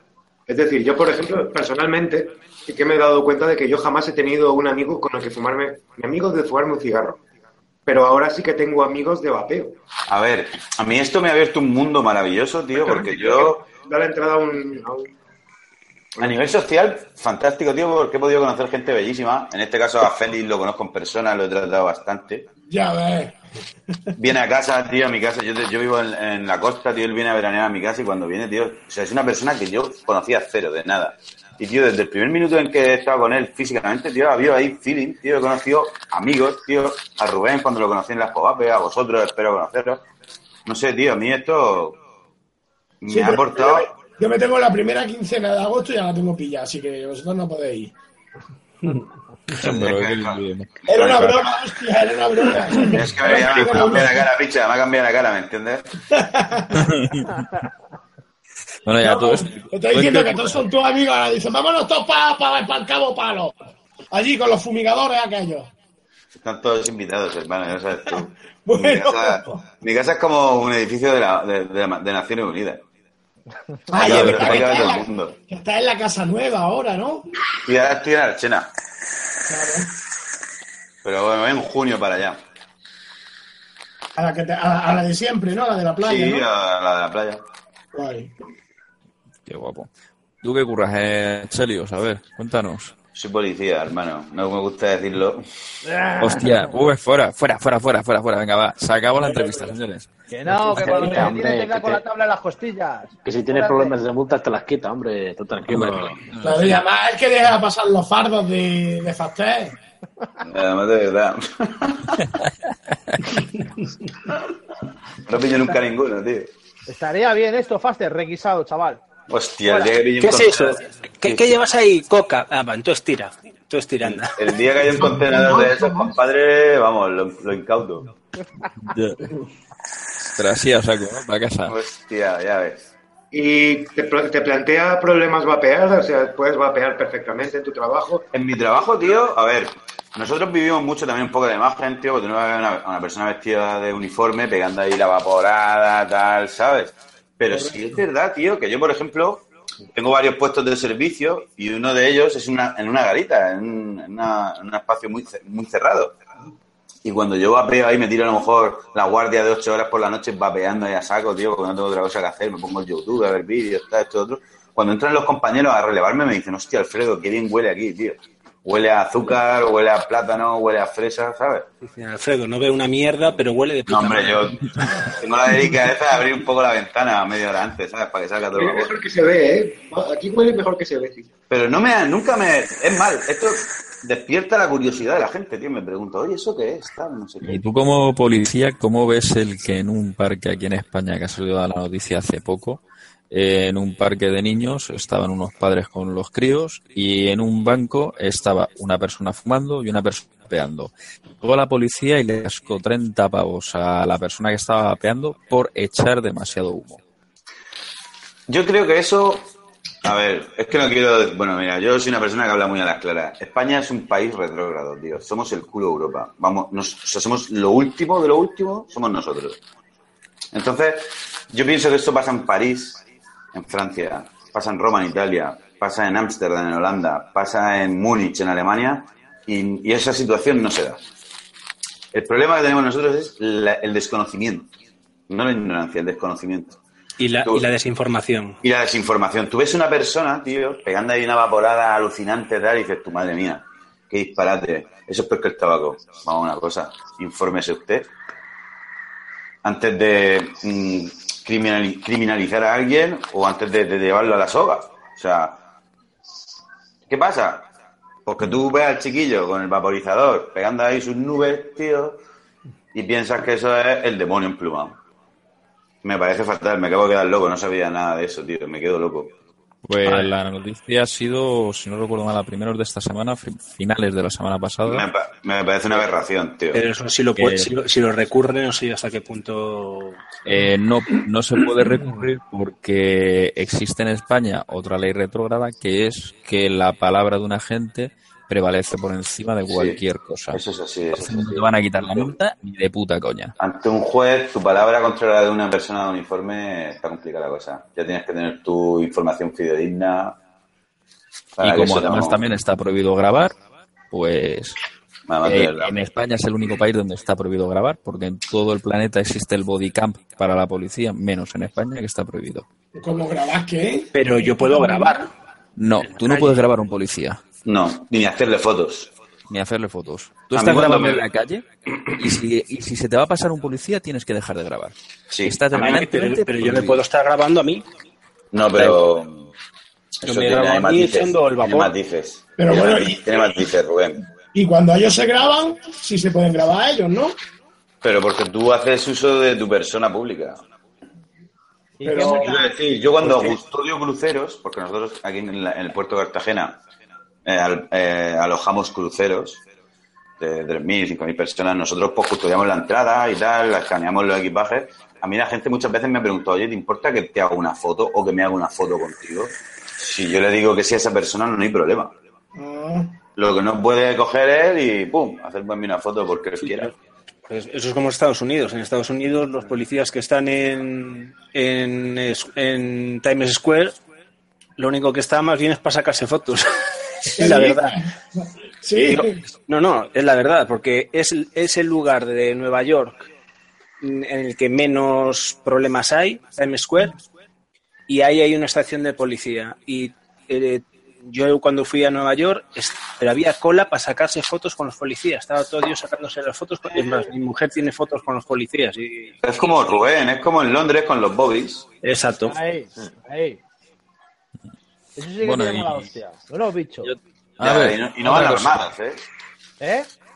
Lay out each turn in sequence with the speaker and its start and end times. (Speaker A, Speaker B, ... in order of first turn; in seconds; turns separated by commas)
Speaker A: 0.5-7.2, Speaker A: 7.8-9.8, Speaker B: 10.1-13.6, Speaker A: 12.7-15.1, Speaker B: 16.2-22.4, Speaker C: 22.7-23.4, Speaker C: 23.9-24.1, Speaker B: 24.1-40.0, Speaker B: 40.6-42.0, Speaker B: 43.0-43.9, Speaker C: 43.1-47.9, Speaker D: 49.6-51.4, Speaker B: 49.7-50.4, Speaker C: 50.9-54.2, Speaker B: 52.9-55.9, Speaker C: 56.1-56.9, Speaker D: 56.8-57.4, Speaker D: 58.8-60.5, Speaker C: 59.0-63.5, Speaker C: 64.1-65.7, Speaker B: 66.4-72.8, Speaker C: 68.7-69.6, Speaker C: 73.9-77.3, Speaker B: 73.9-75.3, Speaker D: 74.0-74.7, Speaker B: 77.6-78.7, Speaker C: 79.5-79.9, Speaker B: 81.0-82.4, Speaker C: 84.1-86.5, Speaker B: 86.0-87.4, Speaker C: 87.9-88.3, Speaker D: 89.5-89.9, Speaker D: 90.4-92.9, Speaker B: 93.1-95.4, Speaker E: 96.0-96.4, Speaker D: 96.2-100.1, Speaker C: 99.3-99.7, Speaker E: 100.3-104.0, Speaker F: 100.7-102.0, Speaker C: 101.0-101.3, Speaker F: 103.2-106.2, Speaker D: 105.7-106.8, Speaker C: 106.4-109.8, Speaker B: 110.4-112.2, Speaker D: 113.1-113.3, Speaker B: 115.2-116.5, Speaker E: 116.9-119.0, Speaker B: 119.3-121.5, Speaker G: 120.2-124.5, Speaker B: 124.0-128.1, Speaker C: 125.1-126.1, Speaker D: 128.8-129.2, Speaker D: 130.3-131.8, Speaker B: 131.7-132.9, Speaker A: 133.3-138.2, Speaker B: 138.3-156.2, Speaker B: 157.0-171.7, Speaker G: 171.8-175.0, Speaker B: 173.9-178.9, Speaker A: 178.5-181.3, Speaker B: 181.5-187.6, Speaker D: 187.4-207.0, Speaker B: 208.5-209.5, Speaker B: 210.0-219.6, Speaker B: 220.5-223.0, Speaker B: 223.5-231.0, Speaker B: 232.1-234.7, Speaker B: 235.3-236.8, Speaker G: 237.2-238.6, Speaker B: 238.6-248.1, Speaker B: 249.6-255.6, Speaker B: 257.1-257.7, Speaker B: 258.2-262.2, Speaker B: 262.9-265.0, Speaker B: 266.0-269.3, Speaker D: 269.9-275.1, Speaker G: 270.0-270.3, Speaker B: 274.9-276.8, Speaker G: 276.7-280.3, Speaker D: 277.4-277.7, Speaker D: 280.4-290.6, Speaker B: 289.7-290.0, Speaker B: 290.5-292.3, Speaker D: 291.1-293.5, Speaker B: 293.6-300.4, Speaker B: 301.6-302.4, Speaker D: 301.6-303.5, Speaker D: 304.1-304.7, Speaker B: 305.3-305.9, Speaker D: 305.4-312.6, Speaker C: 312.9-315.2, Speaker G: 314.1-315.3, Speaker D: 315.8-317.4, Speaker G: 316.1-316.6, Speaker B: 317.6-319.1, Speaker D: 319.5-321.6, Speaker B: 320.5-321.2, Speaker D: 322.2-324.9, Speaker D: 325.4-327.0, Speaker G: 325.7-327.9, Speaker B: 328.5-329.5, Speaker B: 330.2-334.2, Speaker G: 330.2-331.9, Speaker C: 332.6-333.6, Speaker C: 334.5-337.4, Speaker B: 338.0-340.6, Speaker E: 342.0-342.7, Speaker C: 342.0-342.6, Speaker B: 342.3-346.8, Speaker B: 347.4-349.6, Speaker B: 350.4-362.1, Speaker C: 362.6-363.1, Speaker B: 363.4-366.9, Speaker G: 366.6-366.9, Speaker G: 367.5-374.0, Speaker G: 374.8-376.7, Speaker G: 377.2-378.0, Speaker C: 377.3-379.4, Speaker G: 379.1-383.3, Speaker G: 384.0-387.2, Speaker G: 388.1-399.7, Speaker B: 399.4-401.8, Speaker G: 402.0-402.6, Speaker E: 402.5-403.6, Speaker E: 405.1-407.1, Speaker D: 405.4-406.1, Speaker D: 407.0-408.8, Speaker B: 407.6-409.2, Speaker E: 409.8-410.1